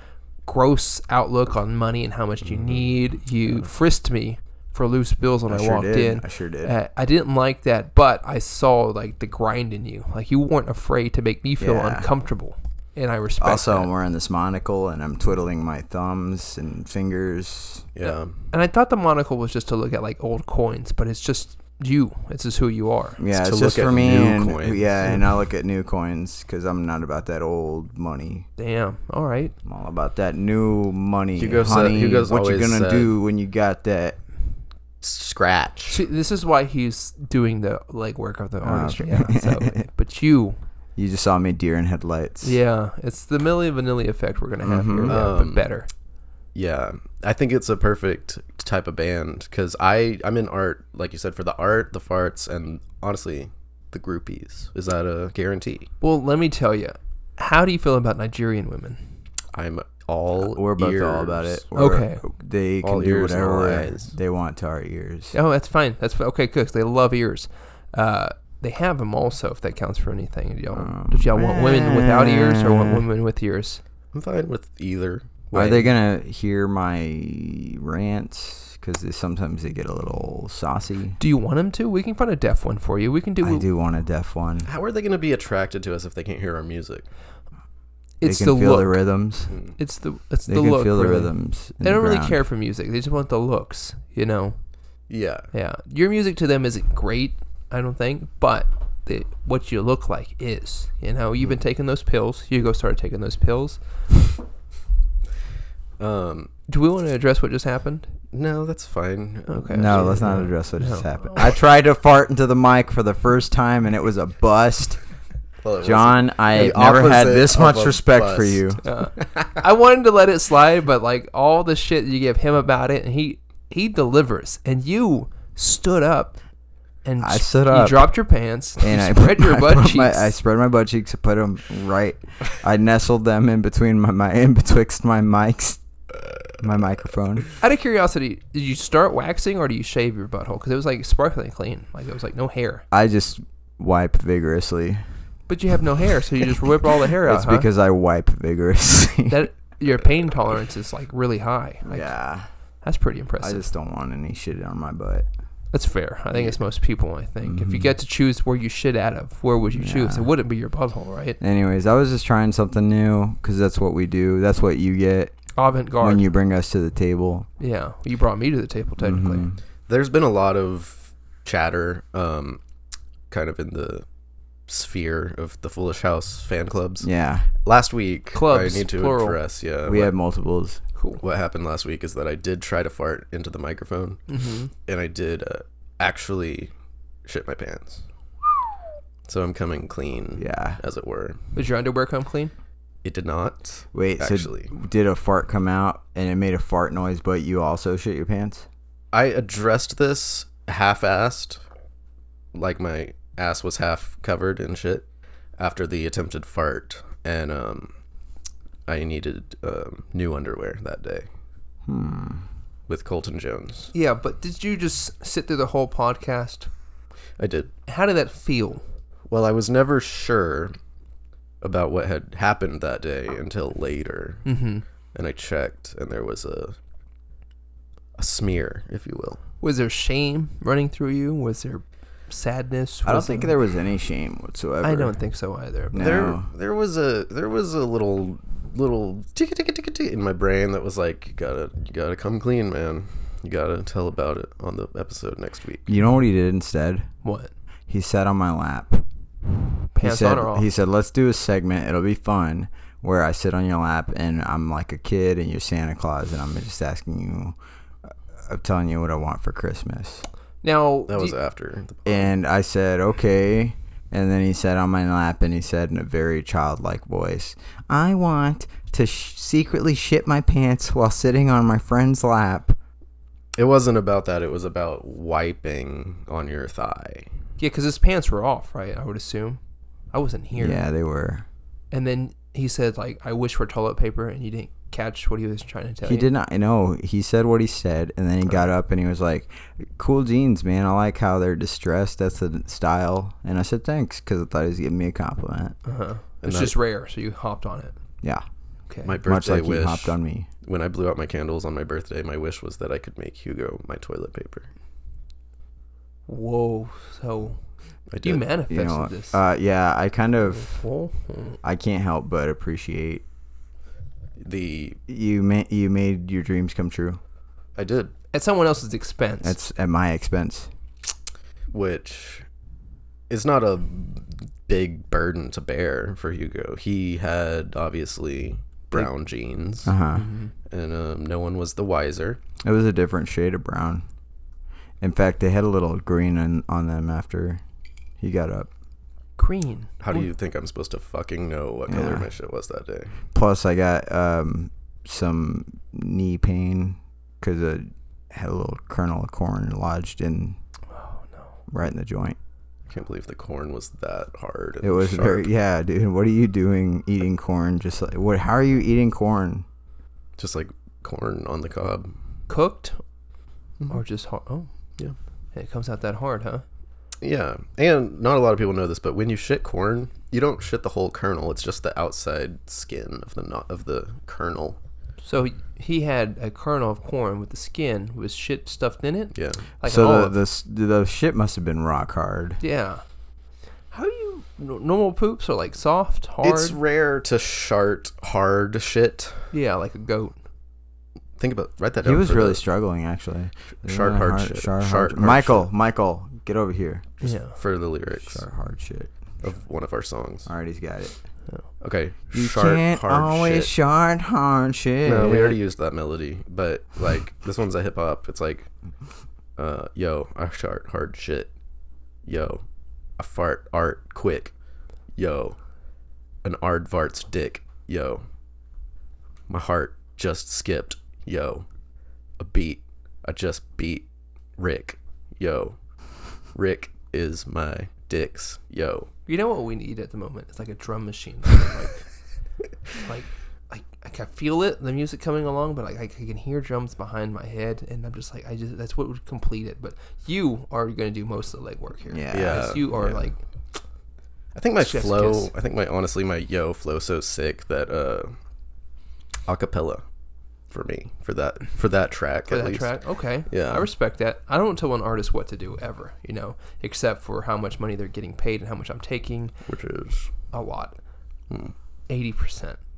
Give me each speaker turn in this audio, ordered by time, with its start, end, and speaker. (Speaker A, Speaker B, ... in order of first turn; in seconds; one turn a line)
Speaker A: 0.4-13.9
Speaker B: 2.4-3.7
Speaker C: 5.5-6.7
Speaker C: 11.6-12.1
Speaker C: 13.4-17.9
Speaker B: 17.9-18.4
Speaker A: 18.0-23.2
Speaker C: 23.2-28.5
Speaker B: 23.3-25.2
Speaker A: 28.6-29.5
Speaker C: 29.6-34.2
Speaker B: 31.4-33.1
Speaker B: 35.0-36.0
Speaker A: 35.9-40.6
Speaker C: 38.6-39.8
Speaker C: 41.0-42.6
Speaker A: 42.4-45.9
Speaker C: 44.6-45.3
Speaker B: 45.1-45.7
Speaker B: 46.5-55.9
Speaker A: 56.0-59.0
Speaker B: 59.5-61.6
Speaker C: 60.4-65.3
Speaker A: 61.7-62.2
Speaker B: 62.8-64.1
Speaker A: 65.3-73.8
Speaker C: 70.7-73.0
Speaker B: 74.1-75.9
Speaker C: 75.5-81.2
Speaker A: 81.2-83.7
Speaker C: 83.4-84.7
Speaker B: 84.6-87.0
Speaker A: 88.2-89.0
Speaker C: 88.2-89.5
Speaker B: 89.5-89.8
Speaker A: 89.8-94.6
Speaker C: 90.5-92.4
Speaker B: 95.1-95.5
Speaker A: 95.5-103.8
Speaker B: 106.0-106.5
Speaker A: 106.7-108.1
Speaker B: 108.3-110.3
Speaker A: 109.5-111.4
Speaker C: 109.7-115.0
Speaker B: 115.6-119.6
Speaker C: 115.8-118.8
Speaker A: 118.8-126.4
Speaker A: 127.0-130.3
Speaker C: 127.2-128.1
Speaker C: 128.8-135.8
Speaker C: 136.6-137.5
Speaker A: 137.6-142.8
Speaker C: 142.9-145.0
Speaker A: 145.5-147.7
Speaker C: 147.2-149.4
Speaker A: 149.3-152.1
Speaker C: 151.8-152.5
Speaker A: 152.8-153.7
Speaker C: 153.4-155.3
Speaker A: 155.7-161.4
Speaker C: 157.4-157.9
Speaker C: 159.7-160.3
Speaker C: 161.4-165.3
Speaker A: 165.6-166.2
Speaker C: 166.0-167.5
Speaker A: 167.6-169.5
Speaker C: 169.0-169.6
Speaker B: 169.9-172.6
Speaker B: 173.3-174.0
Speaker B: 174.7-177.1
Speaker C: 177.0-177.5
Speaker B: 177.6-180.1
Speaker A: 178.3-179.4
Speaker C: 179.8-180.8
Speaker B: 181.2-184.2
Speaker A: 184.3-184.7
Speaker B: 184.8-186.7
Speaker B: 187.2-188.0
Speaker B: 189.2-191.4
Speaker C: 190.3-190.8
Speaker A: 191.5-192.5
Speaker B: 193.0-194.7
Speaker C: 193.9-198.7
Speaker B: 199.1-201.6
Speaker B: 202.5-205.1
Speaker B: 205.6-207.9
Speaker B: 208.9-211.3
Speaker C: 211.9-212.4
Speaker B: 212.9-213.9
Speaker A: 213.9-216.7
Speaker B: 217.4-217.7
Speaker A: 217.9-218.8
Speaker B: 219.3-220.8
Speaker B: 221.6-224.5
Speaker A: 224.4-224.8
Speaker B: 225.1-226.8
Speaker B: 228.2-229.4
Speaker A: 229.6-233.5
Speaker C: 233.0-235.2
Speaker A: 234.8-236.1
Speaker C: 235.9-236.4
Speaker B: 235.9-245.9
Speaker C: 245.9-247.1
Speaker A: 247.2-247.5
Speaker C: 247.9-249.0
Speaker C: 249.9-257.6
Speaker A: 249.9-250.7
Speaker C: 258.4-260.2
Speaker A: 260.6-261.4
Speaker B: 261.1-262.3
Speaker C: 262.1-272.8
Speaker B: 273.5-277.3
Speaker A: 277.6-279.6
Speaker A: 280.1-280.8
Speaker C: 280.6-281.4
Speaker A: 281.9-286.3
Speaker C: 286.0-295.8
Speaker A: 295.8-297.9
Speaker B: 296.4-296.7
Speaker A: 298.9-299.2
Speaker B: 299.0-304.7
Speaker C: 299.2-300.5
Speaker A: 306.3-307.6
Speaker B: 308.1-308.4
Speaker A: 308.2-309.4
Speaker C: 308.7-310.8
Speaker A: 310.4-311.6
Speaker C: 311.6-313.2
Speaker B: 314.4-315.0
Speaker C: 315.1-317.2
Speaker B: 317.8-318.1
Speaker A: 318.3-319.6
Speaker C: 319.4-320.7
Speaker B: 321.7-322.4
Speaker B: 323.3-329.9
Speaker C: 329.8-330.3
Speaker A: 330.1-330.5
Speaker B: 330.7-332.4
Speaker C: 332.6-334.0
Speaker C: 335.0-337.6
Speaker C: 338.2-338.7
Speaker A: 339.4-340.3
Speaker B: 340.0-343.1
Speaker C: 341.9-342.3
Speaker C: 343.3-350.6
Speaker A: 350.9-351.5
Speaker C: 351.7-352.4
Speaker B: 352.9-355.5
Speaker C: 354.8-359.6
Speaker B: 360.4-362.1
Speaker A: 362.5-363.0
Speaker A: 363.9-364.7
Speaker A: 365.5-366.6
Speaker B: 367.2-374.8
Speaker A: 375.2-380.4
Speaker B: 379.3-379.6
Speaker C: 379.8-382.6
Speaker A: 382.6-383.0
Speaker A: 383.9-386.8
Speaker B: 386.4-389.5
Speaker A: 389.5-390.4
Speaker B: 391.4-392.6
Speaker C: 392.0-397.1
Speaker B: 393.8-395.7
Speaker B: 397.2-398.4
Speaker A: 397.2-397.6
Speaker C: 398.2-399.1
Speaker B: 399.4-400.5
Speaker C: 400.4-401.2
Speaker B: 401.8-403.7
Speaker C: 402.3-405.4
Speaker B: 405.0-408.7
Speaker A: 405.1-405.6
Speaker B: 409.6-411.5
Speaker B: 412.2-412.6
Speaker B: 413.2-414.5
Speaker B: 415.1-415.6
Speaker B: 416.4-418.2
Speaker B: 419.5-421.6
Speaker B: 422.4-425.8
Speaker B: 426.5-429.1
Speaker A: 429.3-432.1
Speaker A: 433.0-443.4
Speaker C: 442.1-442.7
Speaker B: 442.3-443.3
Speaker B: 444.5-448.3
Speaker A: 444.8-445.5
Speaker B: 449.5-450.0
Speaker B: 450.7-453.0
Speaker A: 452.5-459.5
Speaker B: 453.5-453.9
Speaker B: 459.7-460.3
Speaker A: 460.5-460.9
Speaker A: 462.1-462.8